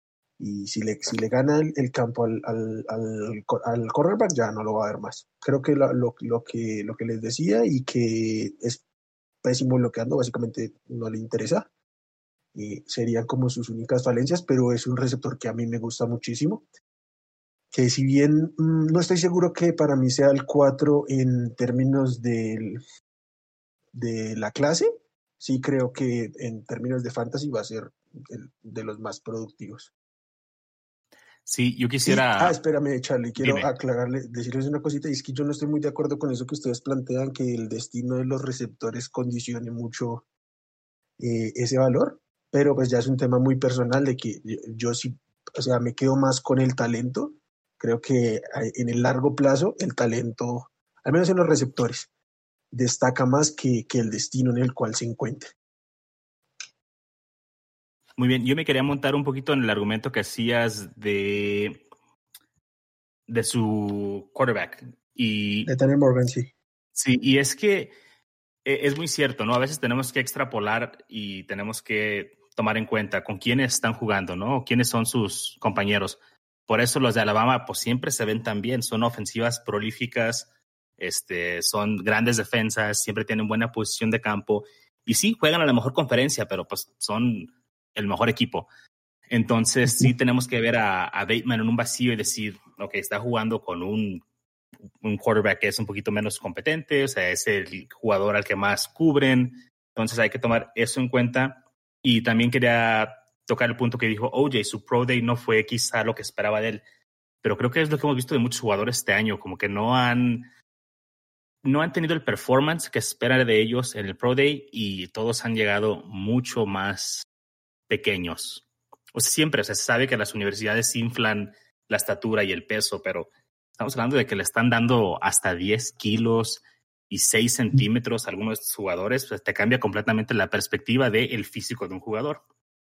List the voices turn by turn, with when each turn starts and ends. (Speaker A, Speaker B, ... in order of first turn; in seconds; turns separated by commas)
Speaker A: 0.4-8.8, Speaker A: 9.4-11.7, Speaker A: 12.5-16.6, Speaker A: 17.7-22.8, Speaker A: 23.9-24.9, Speaker A: 25.4-29.9, Speaker B: 31.4-32.5, Speaker A: 32.0-40.2, Speaker B: 33.4-33.7, Speaker A: 41.2-52.1, Speaker A: 52.7-55.5, Speaker B: 58.2-61.9, Speaker B: 63.3-65.7, Speaker A: 65.7-66.5, Speaker B: 67.0-67.9, Speaker B: 68.6-88.7, Speaker B: 89.3-94.2, Speaker B: 95.0-106.8, Speaker B: 107.4-110.5, Speaker B: 111.6-117.2, Speaker B: 117.9-132.4